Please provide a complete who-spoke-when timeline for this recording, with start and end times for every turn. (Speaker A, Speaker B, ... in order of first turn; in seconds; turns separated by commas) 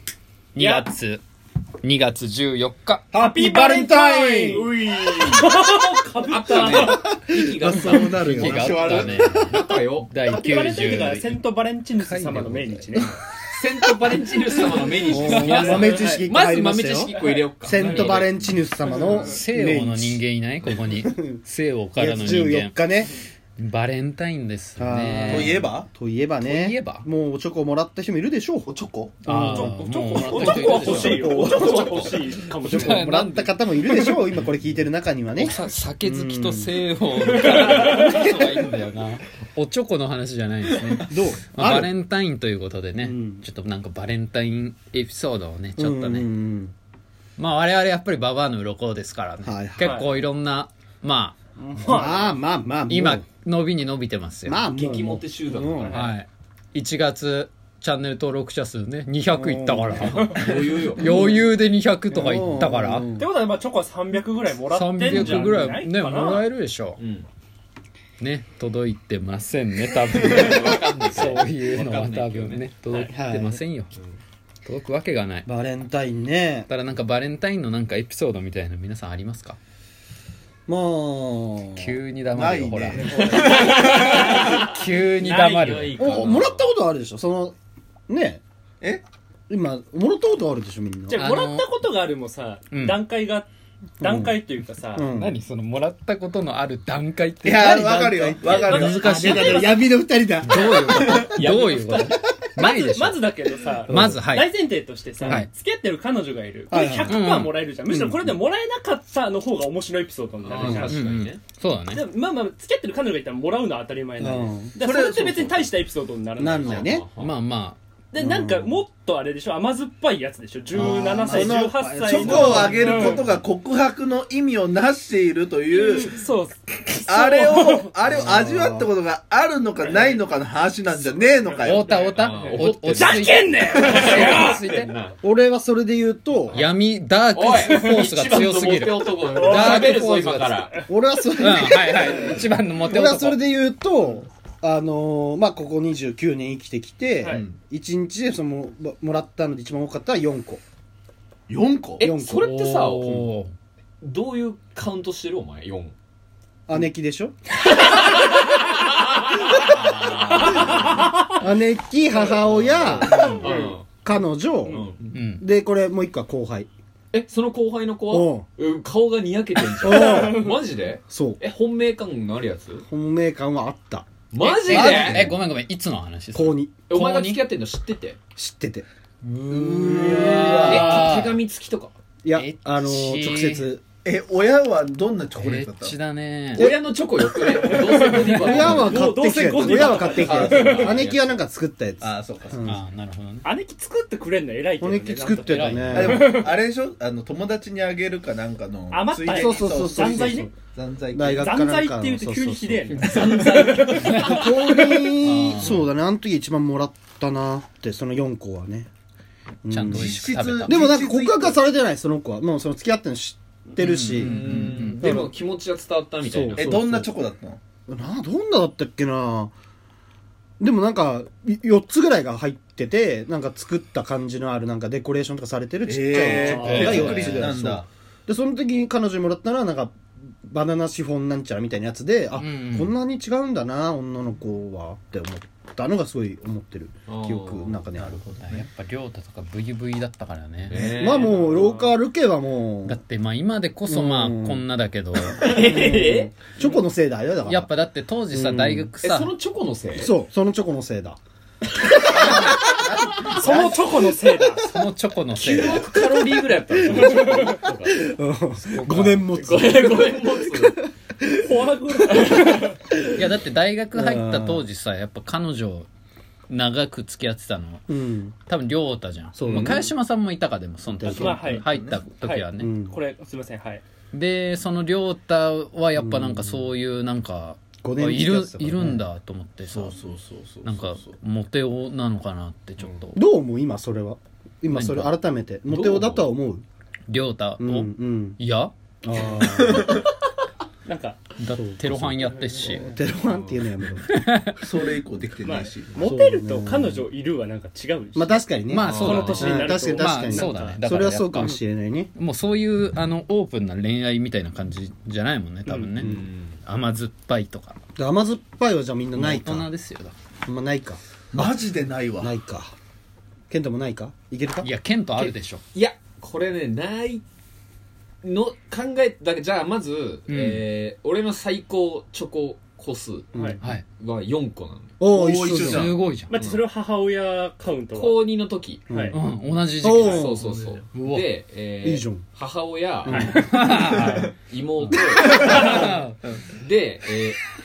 Speaker A: 0.6-1.2, Speaker B: 0.6-0.9, Speaker A: 1.8-3.1, Speaker C: 3.1-4.7, Speaker B: 3.1-7.6, Speaker D: 4.5-5.6, Speaker D: 6.2-10.1, Speaker E: 6.5-9.6, Speaker A: 7.8-11.4, Speaker B: 10.3-13.1, Speaker A: 12.0-13.1, Speaker D: 13.5-18.5, Speaker C: 15.1-21.4, Speaker A: 15.2-16.0, Speaker B: 15.2-16.1, Speaker B: 17.7-18.1, Speaker A: 17.9-18.1, Speaker A: 19.1-22.8, Speaker C: 22.0-23.1, Speaker A: 23.6-25.6, Speaker C: 24.8-28.7, Speaker E: 25.3-25.9, Speaker A: 26.4-27.1, Speaker E: 28.7-29.2, Speaker C: 29.2-29.9, Speaker A: 29.3-31.4, Speaker B: 29.4-33.1, Speaker D: 30.1-31.4, Speaker C: 31.0-32.1, Speaker E: 31.3-32.3, Speaker C: 32.6-36.8, Speaker A: 32.7-34.1, Speaker D: 32.8-33.5, Speaker A: 35.4-46.3, Speaker B: 37.3-38.3, Speaker D: 37.5-38.7, Speaker C: 41.0-41.9, Speaker C: 43.0-43.5, Speaker C: 45.8-46.7, Speaker A: 47.4-51.4, Speaker C: 49.5-49.9, Speaker B: 49.8-50.1, Speaker C: 51.6-53.2, Speaker B: 51.8-52.3, Speaker A: 52.9-54.6, Speaker C: 54.5-56.0, Speaker D: 54.5-56.1, Speaker B: 55.8-56.1, Speaker A: 55.9-63.1, Speaker C: 59.3-60.2, Speaker B: 60.1-60.6, Speaker D: 60.3-61.0, Speaker C: 61.0-61.5, Speaker C: 62.1-63.3, Speaker B: 63.2-66.5, Speaker A: 64.7-67.0, Speaker D: 67.0-67.3, Speaker A: 68.2-74.0, Speaker D: 70.2-72.7, Speaker C: 73.1-73.6, Speaker A: 74.7-75.5, Speaker C: 75.5-76.7, Speaker A: 76.7-79.6, Speaker C: 80.7-82.0, Speaker A: 81.8-86.0, Speaker E: 82.3-84.3, Speaker B: 83.0-86.3, Speaker D: 83.4-84.5, Speaker D: 85.8-86.7, Speaker C: 86.0-87.6, Speaker C: 88.1-88.4, Speaker C: 89.5-91.2, Speaker B: 91.1-93.5, Speaker A: 91.2-91.7, Speaker A: 92.7-93.0, Speaker B: 94.0-95.0, Speaker C: 94.0-94.3, Speaker C: 95.0-95.3, Speaker A: 95.1-97.9, Speaker E: 97.4-99.8, Speaker C: 97.5-101.2, Speaker B: 98.5-99.9, Speaker A: 98.6-99.3, Speaker A: 100.4-103.2, Speaker D: 100.5-102.2, Speaker B: 102.6-111.0, Speaker A: 103.9-104.5, Speaker C: 103.9-104.2, Speaker A: 105.2-105.5, Speaker C: 106.7-107.2, Speaker A: 107.1-107.5, Speaker C: 107.9-108.3, Speaker D: 110.4-111.4, Speaker A: 110.9-112.0, Speaker B: 111.9-116.9, Speaker C: 114.2-114.8, Speaker E: 114.8-115.7, Speaker C: 116.4-117.1, Speaker D: 116.6-117.3, Speaker A: 117.2-117.8, Speaker B: 118.1-123.3, Speaker C: 118.2-118.8, Speaker C: 120.8-122.9, Speaker E: 121.2-126.1, Speaker B: 125.7-127.9, Speaker E: 127.0-131.9, Speaker C: 128.1-128.9, Speaker B: 129.9-130.2, Speaker B: 131.5-134.6, Speaker A: 131.6-134.9, Speaker D: 132.2-135.2, Speaker C: 135.2-136.6, Speaker A: 136.5-140.8, Speaker D: 137.3-140.8, Speaker B: 137.6-138.0, Speaker B: 139.3-140.0, Speaker C: 140.9-150.6, Speaker A: 141.4-143.4, Speaker E: 147.3-147.6, Speaker E: 151.5-152.0, Speaker C: 152.0-153.3, Speaker D: 152.0-153.2, Speaker A: 152.5-153.5, Speaker D: 154.0-155.9, Speaker C: 156.7-157.4, Speaker B: 157.7-158.6, Speaker D: 157.8-158.5, Speaker A: 159.6-160.9, Speaker B: 159.6-161.4, Speaker D: 160.4-160.9, Speaker C: 161.3-163.5, Speaker D: 162.4-163.9, Speaker A: 163.0-163.4, Speaker B: 163.2-163.8, Speaker C: 164.0-164.8, Speaker D: 164.7-165.1, Speaker A: 165.1-165.4, Speaker C: 165.4-166.7, Speaker D: 167.1-172.8, Speaker C: 168.1-168.5, Speaker C: 169.8-170.5, Speaker B: 169.8-170.6, Speaker C: 171.1-171.4, Speaker C: 172.9-174.1, Speaker D: 174.3-175.3, Speaker A: 174.4-177.4, Speaker C: 174.6-175.4, Speaker C: 176.3-176.8, Speaker D: 176.9-178.2, Speaker C: 178.4-178.9, Speaker D: 179.2-181.9, Speaker E: 179.5-181.1, Speaker C: 180.0-181.1, Speaker A: 180.4-181.4, Speaker C: 182.2-183.8, Speaker A: 182.3-183.7, Speaker E: 184.0-186.0, Speaker A: 185.4-186.7, Speaker D: 186.6-191.4, Speaker B: 187.4-191.0, Speaker A: 188.2-188.7, Speaker C: 188.3-192.8, Speaker E: 192.0-192.6, Speaker A: 192.7-193.5, Speaker B: 193.4-196.6, Speaker C: 194.8-196.3, Speaker A: 195.5-196.1, Speaker E: 195.9-201.7, Speaker B: 198.9-200.6, Speaker C: 199.3-200.5, Speaker C: 201.1-203.1, Speaker B: 201.3-204.4, Speaker E: 203.0-203.8, Speaker D: 203.0-205.1, Speaker A: 203.9-204.4, Speaker C: 203.9-208.9, Speaker A: 205.2-205.9, Speaker C: 209.7-215.3, Speaker A: 209.7-210.8, Speaker E: 209.9-211.6, Speaker A: 213.8-215.0, Speaker D: 214.2-216.9, Speaker C: 216.2-217.1, Speaker E: 216.6-217.6, Speaker C: 217.9-219.5, Speaker C: 220.6-238.2, Speaker E: 225.8-227.9, Speaker B: 226.2-226.8, Speaker A: 226.5-227.5, Speaker A: 232.4-232.9, Speaker D: 237.1-237.9, Speaker E: 238.0-238.7, Speaker A: 238.0-241.0, Speaker D: 240.7-241.5, Speaker C: 240.8-243.0, Speaker B: 241.3-242.0, Speaker A: 242.9-245.5, Speaker C: 243.9-244.7, Speaker D: 245.4-246.4, Speaker C: 245.4-247.7, Speaker A: 247.5-249.3, Speaker C: 248.3-248.9, Speaker D: 249.0-250.1, Speaker C: 249.9-251.2, Speaker D: 251.9-252.7, Speaker C: 252.2-252.5, Speaker C: 253.2-254.3, Speaker B: 253.3-254.7, Speaker A: 254.6-255.9, Speaker D: 255.4-258.0, Speaker B: 256.9-257.2, Speaker C: 257.9-260.9, Speaker D: 258.6-260.8, Speaker B: 261.4-262.8, Speaker A: 263.1-265.9, Speaker C: 263.9-264.7, Speaker A: 266.5-267.9, Speaker C: 267.9-268.4, Speaker A: 268.5-272.7, Speaker C: 269.4-269.9, Speaker C: 270.9-271.6, Speaker B: 271.1-273.8, Speaker E: 271.6-272.0, Speaker C: 272.6-273.0, Speaker A: 274.1-279.9, Speaker C: 276.0-276.7, Speaker C: 277.8-279.1, Speaker E: 279.7-281.2, Speaker A: 280.6-283.2, Speaker C: 283.1-286.6, Speaker A: 284.7-285.1, Speaker A: 285.7-286.3, Speaker A: 287.1-288.7, Speaker C: 287.6-288.4, Speaker C: 289.0-290.0, Speaker E: 289.4-290.0, Speaker B: 290.9-291.3, Speaker A: 291.4-292.9, Speaker C: 291.5-294.1, Speaker B: 292.3-292.9, Speaker D: 293.3-293.6, Speaker A: 294.1-294.6, Speaker E: 294.6-296.2, Speaker B: 295.4-300.8, Speaker C: 295.9-297.0, Speaker C: 298.1-302.1, Speaker A: 298.7-301.6, Speaker D: 298.8-299.6, Speaker A: 302.1-307.8, Speaker B: 305.7-305.9, Speaker C: 306.0-306.3, Speaker D: 306.0-306.6, Speaker C: 308.0-309.7, Speaker A: 309.2-310.1, Speaker C: 310.5-311.4, Speaker E: 311.3-312.3, Speaker C: 312.2-312.7, Speaker C: 313.5-314.7, Speaker A: 314.6-315.6, Speaker D: 315.2-317.2, Speaker D: 318.2-324.9, Speaker A: 320.3-320.6, Speaker C: 323.3-323.6, Speaker C: 325.0-325.9, Speaker E: 325.1-325.9, Speaker A: 325.5-326.4, Speaker B: 326.3-328.3, Speaker D: 327.9-328.9, Speaker B: 328.9-329.1, Speaker C: 328.9-329.2, Speaker A: 329.1-330.4, Speaker C: 329.8-330.4, Speaker D: 329.9-333.4, Speaker A: 330.9-331.3, Speaker C: 331.8-332.3, Speaker C: 333.1-333.4, Speaker B: 333.1-333.5, Speaker A: 333.3-336.2, Speaker E: 333.9-334.2, Speaker D: 334.5-335.9, Speaker E: 335.3-335.6, Speaker B: 335.4-335.9, Speaker D: 336.5-337.4